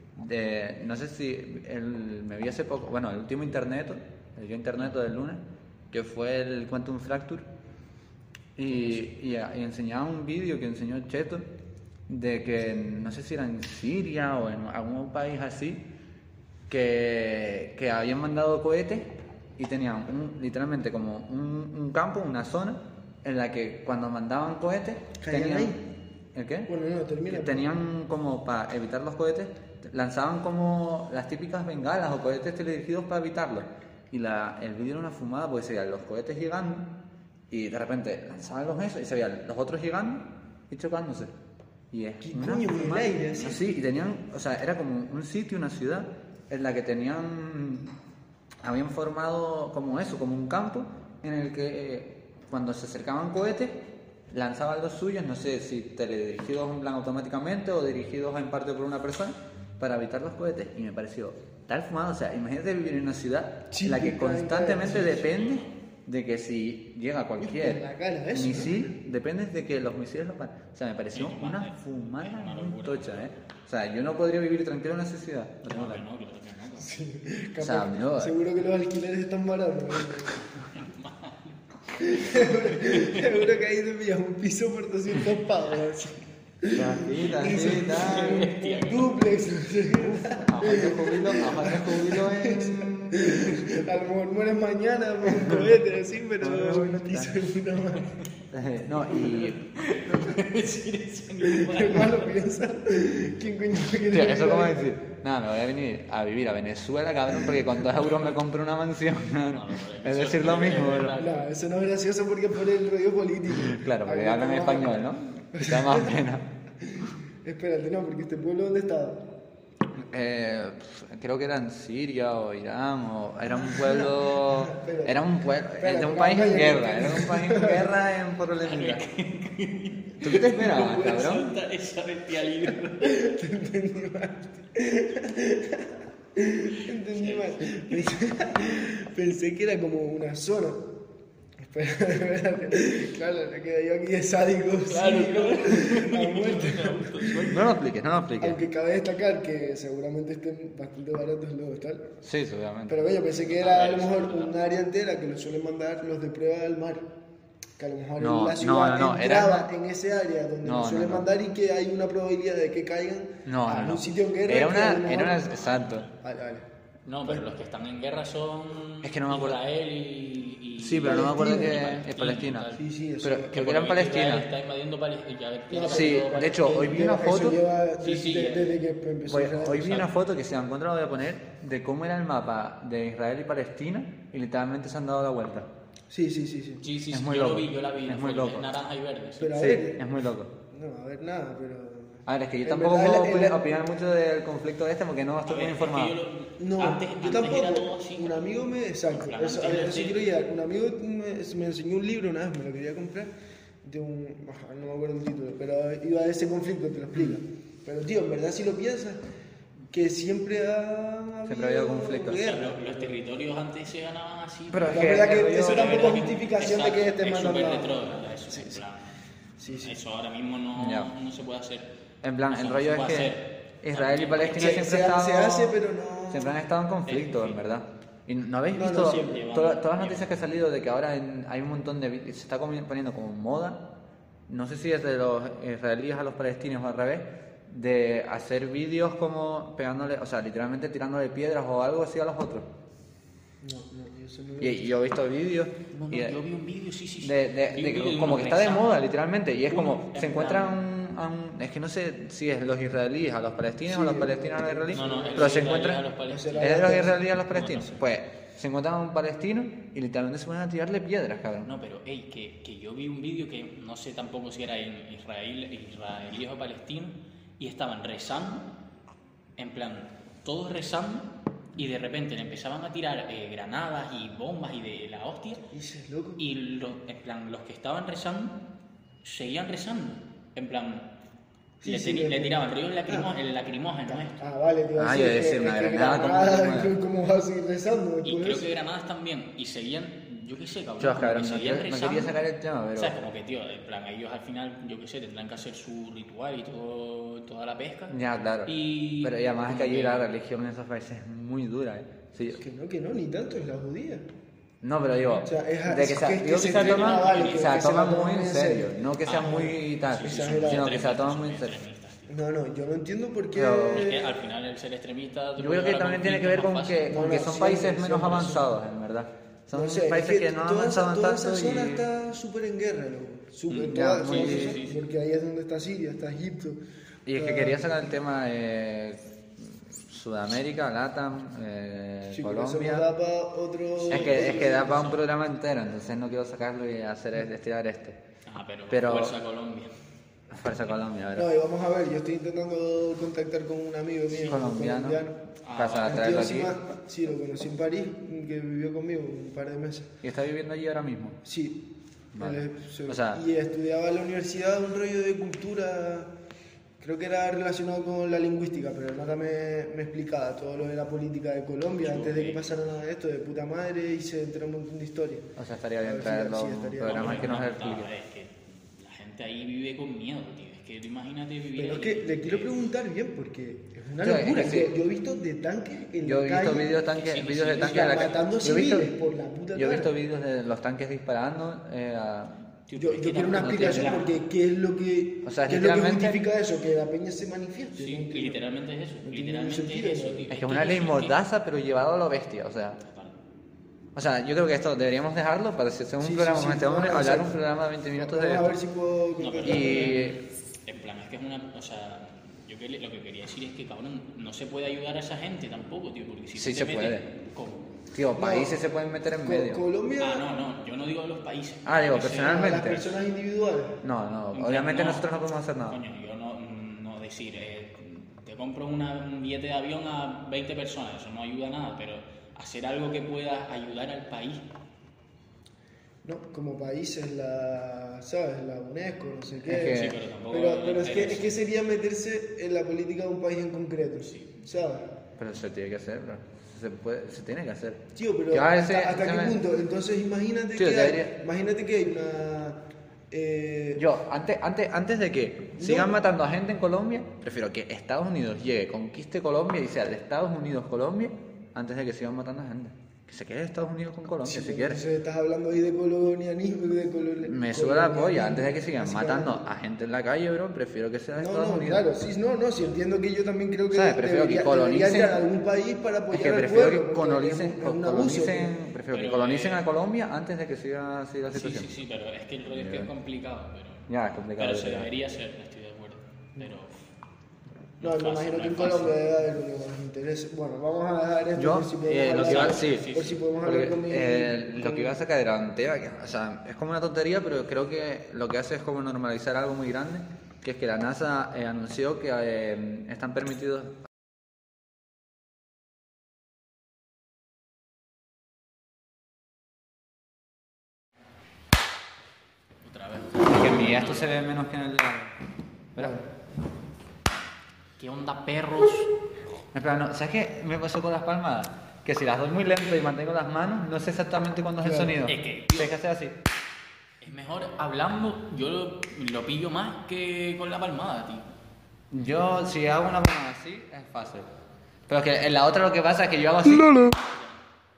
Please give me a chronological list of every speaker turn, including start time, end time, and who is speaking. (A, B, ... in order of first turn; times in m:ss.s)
0:00.2-0:07.4 A
0:08.6-0:11.5 A
0:12.1-0:15.8 A
0:16.7-0:25.7 A
0:25.2-0:25.8 B
0:26.3-0:26.7 A
0:26.7-0:27.7 B
0:27.3-0:36.9 A
0:37.5-0:41.3 A
0:41.9-0:47.9 A
0:42.2-0:43.7 B
0:48.6-1:16.0 A
1:03.7-1:05.4 B
1:05.1-1:05.7 C
1:07.4-1:08.9 B
1:11.1-1:13.4 C
1:15.7-1:16.9 C
1:16.8-1:20.8 B
1:17.6-1:18.4 A
1:20.6-1:23.4 C
1:22.0-1:26.1 B
1:26.6-1:38.2 B
1:26.7-1:28.5 A
1:27.5-1:29.1 C
1:30.0-1:33.6 A
1:35.3-1:35.7 A
1:36.4-1:37.4 A
1:38.5-1:39.6 A
1:39.1-1:42.3 C
1:41.4-1:44.8 B
1:44.1-1:51.2 A
1:49.5-1:51.5 C
1:51.1-1:55.0 B
1:53.5-1:56.5 A
1:55.5-1:56.2 B
1:56.8-1:59.3 B
2:00.0-2:09.0 A
2:03.6-2:05.2 B
2:05.8-2:07.9 B
2:08.6-2:13.2 C
2:10.2-2:11.5 A
2:12.7-2:20.9 B
2:17.1-2:18.1 C
2:21.6-2:27.6 B
2:24.8-2:27.7 C
2:27.5-2:28.6 A
2:28.4-2:32.1 B
2:32.2-2:33.1 A
2:32.9-2:37.1 B
2:33.4-2:34.5 C
2:37.8-2:46.7 B
2:38.2-2:39.7 A
2:40.6-2:41.3 A
2:43.4-2:46.1 A
2:47.0-2:52.8 C
2:49.0-2:49.6 A
2:50.8-2:54.4 A
2:51.0-2:51.8 B
2:52.7-2:53.6 B
2:53.5-2:56.9 C
2:55.7-3:00.1 B
2:55.9-2:57.6 A
2:58.0-2:58.7 C
2:59.3-3:05.7 A
3:06.1-3:06.8 B
3:06.8-3:09.6 C
3:07.1-3:08.7 A
3:09.4-3:10.1 B
3:09.5-3:10.5 A
3:10.7-3:13.6 B
3:12.2-3:16.1 A
3:15.4-3:18.5 C
3:16.6-3:23.3 B
3:19.1-3:20.3 C
3:23.8-3:29.2 B
3:29.9-3:33.2 B
3:31.4-3:32.4 A
3:32.3-3:39.1 C
3:34.7-3:36.2 A
3:34.9-3:38.8 B
3:39.6-3:40.0 B
3:39.7-3:41.9 C
3:40.8-3:41.1 A
3:42.2-3:45.8 A
3:42.5-3:44.8 C
3:44.5-3:46.6 B
3:46.3-3:53.9 A
3:47.1-3:47.7 C
3:48.7-3:49.5 B
3:49.0-3:50.4 C
3:54.5-4:02.7 A
4:03.6-4:05.0 B
4:04.6-4:06.4 A
4:05.9-4:09.0 C
4:07.2-4:16.0 A
4:09.7-4:10.8 C
4:13.8-4:15.7 B
4:14.9-4:17.0 C
4:16.3-4:17.2 B
4:16.5-4:21.7 A
4:17.5-4:18.0 C
4:21.6-4:28.7 C
4:29.6-4:35.6 C
4:35.7-4:36.4 B
4:36.4-4:38.6 C
4:39.2-4:41.1 C
4:41.8-4:43.3 B
4:41.8-4:44.4 C
4:44.1-4:48.7 B
4:45.0-4:46.9 A
4:48.2-4:52.4 C
4:51.0-4:53.1 A
4:53.0-5:00.3 C
4:58.1-5:02.6 A
5:02.6-5:04.2 B
5:04.8-5:11.8 A
5:05.4-5:09.5 B
5:06.6-5:07.8 C
5:09.2-5:12.3 C
5:10.2-5:10.9 B
5:12.3-5:14.3 B
5:13.5-5:14.1 A
5:13.9-5:17.5 C
5:15.6-5:22.0 A
5:17.1-5:18.7 B
5:19.7-5:26.8 B
5:23.7-5:25.0 C
5:23.9-5:24.8 A
5:27.2-5:33.1 A
5:27.3-5:27.8 B
5:32.3-5:35.2 B
5:34.0-5:35.2 C
5:34.1-5:38.2 A
5:38.4-5:39.9 C
5:38.9-5:39.4 A
5:40.5-5:41.5 A
5:41.3-5:45.4 B
5:44.4-5:45.2 A
5:45.6-5:46.5 C
5:45.7-5:46.7 A
5:46.0-5:50.1 B
5:50.2-5:51.4 A
5:51.4-5:56.3 B
5:52.3-5:53.4 A
5:57.0-6:05.5 B
6:02.0-6:02.7 C
6:05.6-6:08.1 A
6:06.0-6:07.5 B
6:07.0-6:12.8 C
6:11.7-6:16.9 B
6:14.2-6:14.9 A
6:16.2-6:19.1 A
6:17.1-6:18.5 C
6:17.8-6:20.1 B
6:19.7-6:22.6 A
6:22.9-6:24.3 C
6:23.0-6:28.6 B
6:23.5-6:24.2 A
6:25.4-6:26.4 A
6:27.9-6:31.3 C
6:29.2-6:30.5 B
6:30.5-6:33.0 A
6:33.0-6:33.4 C
6:34.1-6:38.7 A
6:36.2-6:37.6 B
6:38.2-6:40.2 B
6:39.4-6:47.9 C
6:39.6-6:40.4 A
6:46.5-6:47.2 A
6:48.1-6:49.8 A
6:48.4-6:48.8 B
6:49.4-6:50.4 B
6:50.2-6:52.7 C
6:51.8-6:53.0 A
6:52.4-6:54.0 B
6:54.0-6:56.0 A
6:54.5-6:55.3 C
6:55.9-7:04.7 C
7:06.2-7:15.1 B
7:09.6-7:10.2 A
7:09.8-7:11.6 C
7:14.3-7:14.6 C
7:15.4-7:19.6 A
7:18.1-7:24.0 B
7:20.8-7:21.3 A
7:24.0-7:35.0 A
7:25.8-7:26.2 B
7:34.4-7:39.6 B
7:37.4-7:42.0 A
7:41.4-7:48.7 B
7:43.9-7:45.4 A
7:46.3-7:51.9 A
7:49.1-7:49.8 C
7:51.5-7:56.9 C
7:52.7-7:53.1 A
7:54.1-7:55.1 A
7:58.0-7:59.1 C
7:58.0-8:05.2 B
8:01.6-8:03.1 A
8:02.3-8:03.4 C
8:03.6-8:14.0 A
8:22.8-8:24.5 C
8:23.4-8:25.3 A
8:25.9-8:26.2 A
8:26.0-8:26.2 B
8:28.0-8:29.1 C
8:29.7-8:36.4 A
8:34.8-8:35.1 B
8:35.3-8:36.0 C
8:37.2-8:41.5 C
8:42.1-8:44.5 A
8:45.1-8:47.0 A
8:46.8-8:47.1 B
8:47.1-8:47.6 C